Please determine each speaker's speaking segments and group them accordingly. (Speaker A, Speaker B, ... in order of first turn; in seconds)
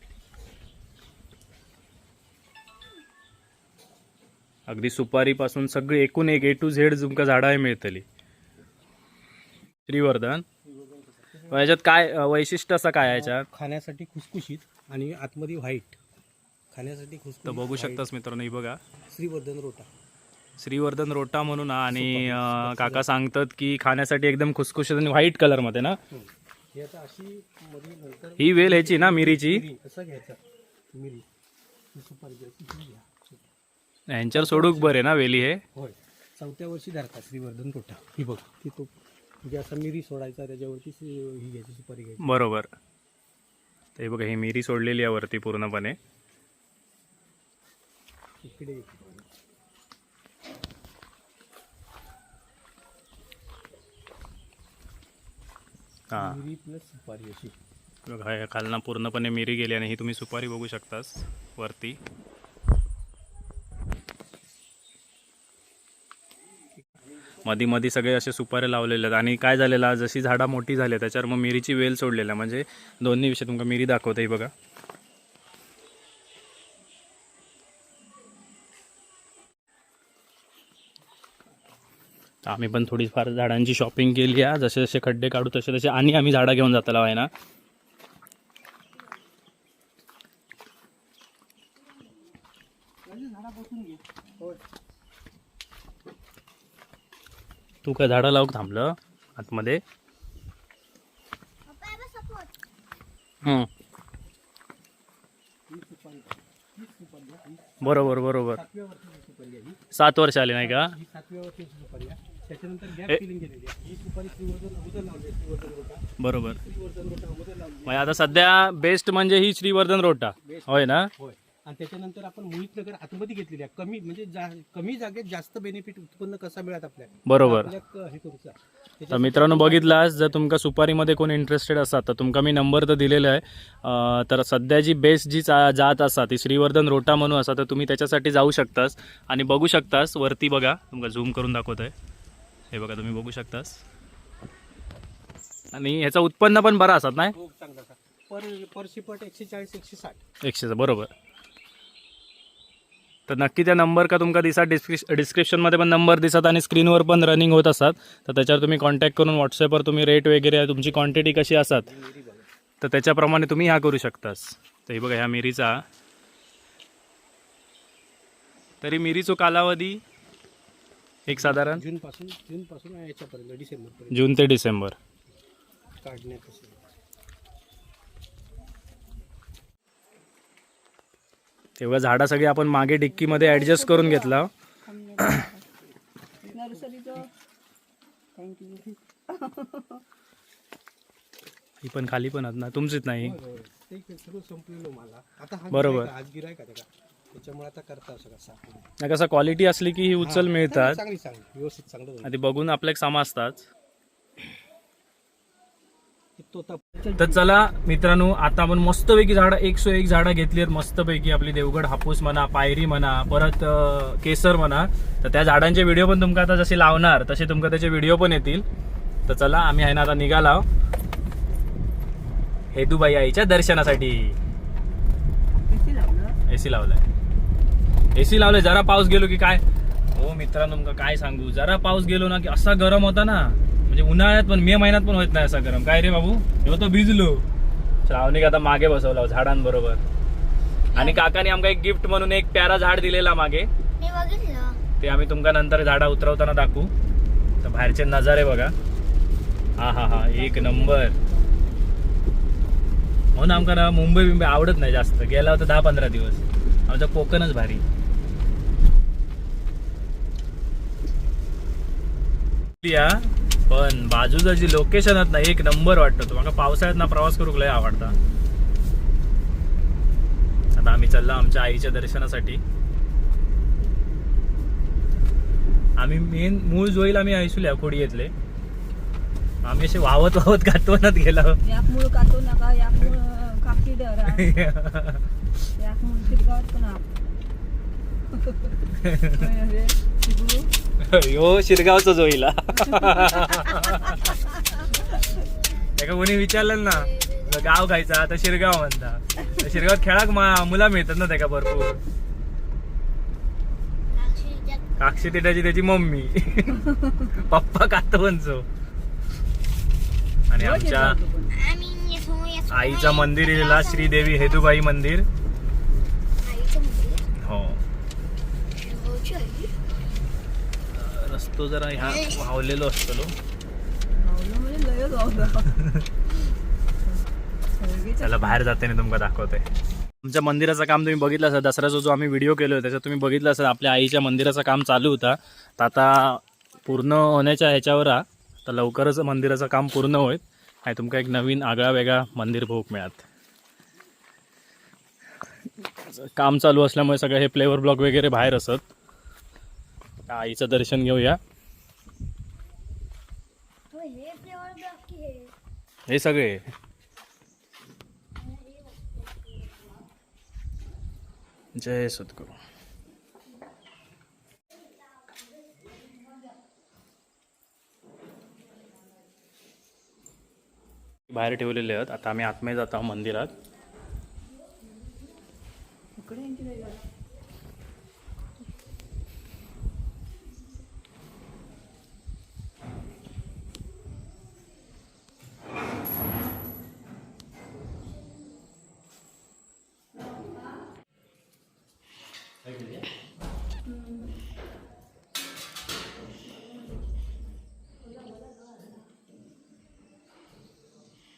Speaker A: 4.7-8.0, 9.9-10.4, 11.5-13.4, 17.4-18.8, 20.6-26.0, 28.4-29.6, 34.1-35.6, 42.2-42.7, 44.0-46.0, 56.1-56.4, 58.1-62.0, 67.4-74.5, 82.5-87.3, 97.8-99.8, 103.4-103.7, 107.8-108.6, 109.9-110.9, 116.2-116.6, 117.8-121.1, 127.3-127.7, 129.1-141.9, 142.7-143.8, 145.7-147.3, 150.4-151.1, 153.3-161.9, 162.8-165.8, 168.8-170.0, 171.3-171.8, 174.1-174.9, 181.8-184.5, 191.8-193.4, 195.7-196.1, 199.0-201.0, 202.2-203.7, 207.2-218.6, 219.3-220.7, 222.7-224.4, 226.5-227.0, 228.1-229.6, 230.1-237.4, 238.1-240.0, 240.9-243.7, 245.0-246.9, 247.6-248.7, 249.8-251.2, 253.3-257.8, 262.8-268.1, 270.7-272.6, 276.0-278.3, 279.6-281.6, 284.3-285.2, 289.0-289.4, 291.0-294.3, 295.9-302.0, 305.0-308.6, 310.5-311.2, 312.7-315.2, 317.4-317.8, 320.9-323.3, 328.2-329.6, 330.2-343.2, 346.0-348.8, 350.3-351.4, 356.1-356.6, 361.8-362.5, 371.3-373.5, 392.6-393.1
Speaker B: 10.6-11.8, 13.0-16.0, 16.7-18.1, 19.1-19.9, 21.9-23.1, 26.1-30.4, 30.9-31.2, 31.9-33.5, 34.3-35.0, 35.7-42.2, 48.4-49.3, 56.1-57.5, 93.0-94.6, 105.7-109.8, 110.6-118.5, 120.4-130.1, 147.3-150.2, 160.9-162.5, 171.3-174.3, 176.0-176.8, 186.4-187.2, 193.2-198.9, 200.2-202.3, 206.4-207.0
Speaker C: 101.6-102.6, 240.9-241.2, 244.0-244.8, 294.5-295.9, 296.7-297.8, 299.4-299.9, 304.1-305.4, 311.5-314.8, 316.4-317.2, 318.8-319.7, 322.0-322.4, 353.9-355.5, 358.4-359.7
Speaker D: 183.2-185.7, 186.5-187.3, 188.3-190.0, 207.0-207.4, 225.5-226.4, 250.1-251.1, 281.6-284.5, 285.8-287.0, 288.3-290.7, 292.9-294.3, 310.6-311.5, 324.1-325.7, 327.8-328.6, 376.2-377.0